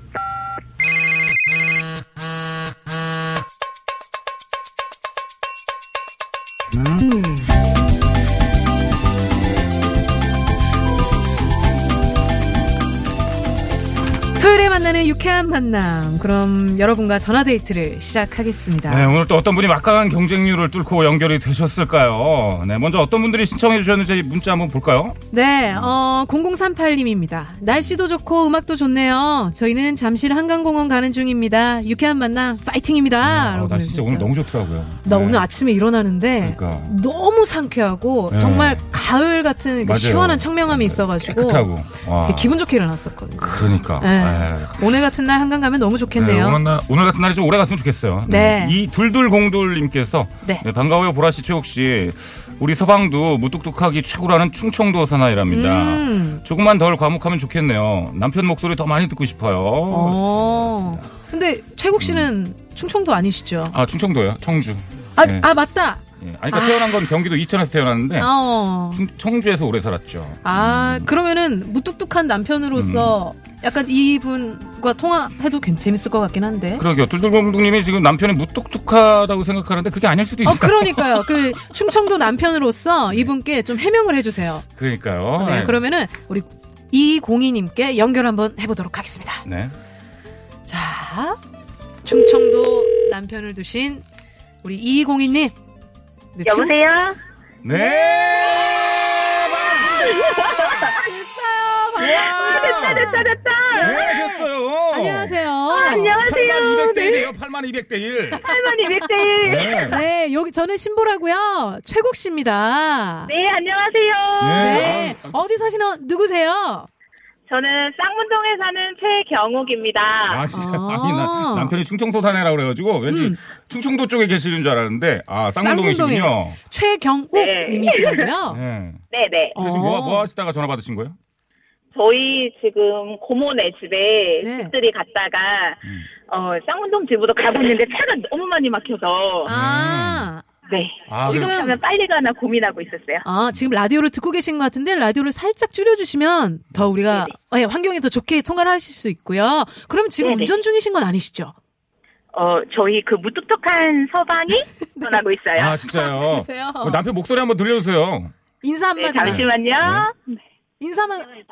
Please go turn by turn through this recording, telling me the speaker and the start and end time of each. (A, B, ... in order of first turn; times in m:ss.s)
0:14.4-0:19.1 A
0:18.9-0:25.2 B
0:25.3-0:34.4 A
0:25.7-0:26.0 B
0:27.7-0:28.0 B
0:33.2-0:35.5 B
0:35.0-0:41.7 A
0:36.4-0:37.0 B
0:38.3-0:38.9 B
0:39.8-0:42.6 B
0:42.2-0:46.6 A
0:43.4-0:45.0 B
0:46.2-1:01.1 B
0:48.3-0:48.8 A
0:55.5-0:56.4 A
0:59.9-1:03.8 A
1:02.0-1:02.3 B
1:03.7-1:05.5 B
1:05.2-1:07.0 A
1:06.2-1:08.4 B
1:08.2-1:09.0 A
1:08.9-1:11.1 B
1:10.4-1:16.8 A
1:12.7-1:13.2 B
1:16.8-1:21.3 B
1:20.4-1:24.7 A
1:24.8-1:25.8 B
1:25.4-1:29.5 A
1:29.4-1:29.7 B
1:30.7-1:31.4 A
1:32.0-1:34.0 A
1:34.6-1:35.6 A
1:36.4-1:36.8 A
1:36.4-1:37.2 C
1:37.6-1:40.9 B
1:37.7-1:38.8 A
1:39.4-1:40.2 A
1:39.9-1:40.9 C
1:40.8-1:46.2 A
1:42.0-1:48.5 B
1:42.0-1:44.1 C
1:45.7-1:47.3 C
1:48.3-1:53.3 A
1:48.4-1:50.0 C
1:49.4-1:50.0 B
1:53.3-1:55.0 C
1:54.4-1:55.3 B
1:54.5-1:56.9 A
1:57.5-2:00.4 C
2:00.3-2:06.6 B
2:00.5-2:01.8 A
2:03.1-2:03.4 A
2:05.6-2:08.6 A
2:07.3-2:08.2 C
2:08.5-2:09.0 B
2:09.1-2:09.6 C
2:09.6-2:10.3 A
2:09.6-2:11.2 B
2:12.0-2:19.5 C
2:14.4-2:14.8 A
2:19.4-2:20.4 A
2:19.5-2:20.3 B
2:20.7-2:23.2 C
2:21.1-2:21.6 B
2:21.2-2:21.8 A
2:23.2-2:31.5 A
2:27.0-2:27.3 C
2:30.2-2:30.5 C
2:32.3-2:35.8 C
2:35.0-2:35.2 A
2:35.6-2:38.3 B
2:35.9-2:37.0 A
2:38.6-2:39.5 A
2:39.0-2:40.4 C
2:39.2-2:40.1 B
2:40.8-2:41.3 A